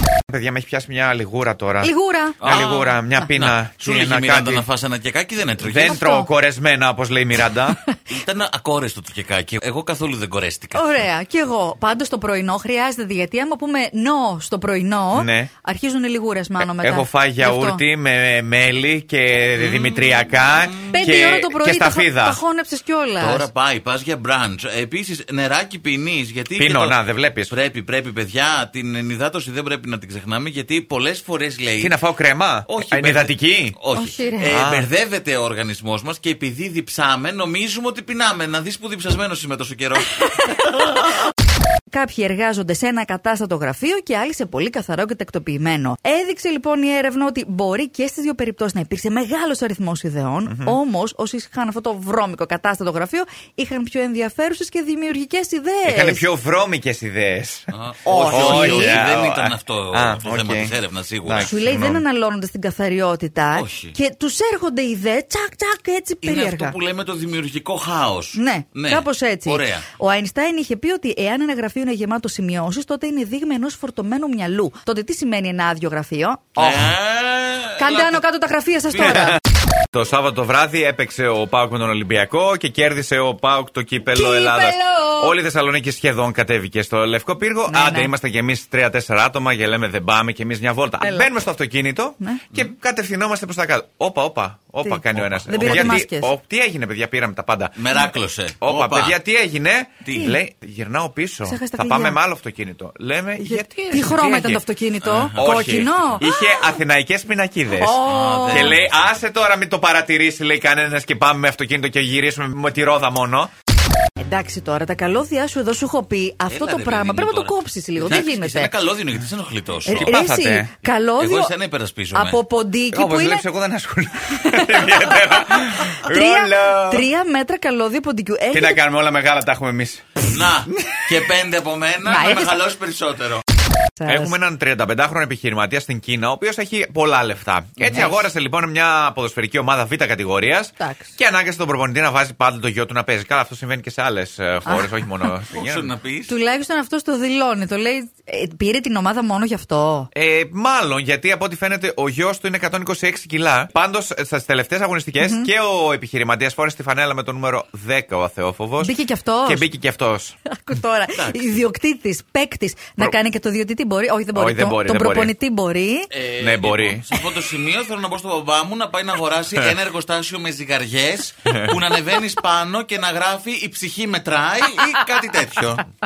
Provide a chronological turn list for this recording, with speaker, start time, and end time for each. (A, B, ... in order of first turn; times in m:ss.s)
0:00.3-0:04.6 A
0:01.8-0:03.0 B
0:02.4-0:06.0 C
0:05.6-0:07.8 A
0:05.9-0:06.3 B
0:08.1-0:11.0 C
0:10.8-0:17.8 B
0:15.1-0:15.5 A
0:16.6-0:22.4 A
0:19.6-0:21.2 C
0:20.9-0:23.5 B
0:23.2-0:32.0 C
0:26.6-0:27.5 A
0:31.8-0:33.8 A
0:32.7-0:41.1 C
0:34.0-0:34.6 B
0:34.5-0:34.9 A
0:41.9-0:56.2 B
0:50.5-0:50.8 A
0:55.8-0:57.7 A
0:57.7-1:01.6 C
0:58.1-0:59.1 B
0:58.3-1:02.0 A
1:01.4-1:06.8 B
1:03.6-1:04.0 C
1:06.2-1:09.9 C
1:08.4-1:16.7 B
1:16.6-1:18.2 C
1:16.6-1:16.9 A
1:17.8-1:19.4 B
1:19.0-1:19.2 C
1:19.9-1:37.9 A
1:24.1-1:25.3 B
1:27.7-1:28.1 B
1:31.0-1:31.3 B
1:34.8-1:36.3 B
1:35.1-1:36.0 C
1:37.8-1:39.2 C
1:38.6-1:44.6 A
1:40.0-1:40.3 C
1:41.4-1:42.2 B
1:43.4-1:46.8 B
1:45.0-1:46.2 C
1:45.3-1:53.5 A
1:47.7-1:48.8 B
1:48.0-1:49.2 C
1:54.2-1:58.7 B
1:56.5-2:00.2 C
1:59.9-2:01.5 B
1:59.9-2:00.7 A
2:01.2-2:02.4 C
2:02.1-2:03.4 B
2:02.9-2:07.1 A
2:04.4-2:08.8 B
2:08.5-2:10.2 A
2:10.3-2:13.4 C
2:12.0-2:12.6 B
2:14.0-2:14.3 B
2:14.0-2:25.9 A
2:20.8-2:21.1 B
2:24.7-2:25.4 B
2:25.5-2:26.4 C
2:26.3-2:30.1 B
2:30.1-2:40.4 A
2:35.2-2:35.5 B
2:38.8-2:39.7 B
2:40.4-2:46.1 B
2:41.2-2:41.6 C
2:44.3-2:45.3 A
2:46.1-2:55.9 C
2:46.4-2:47.0 A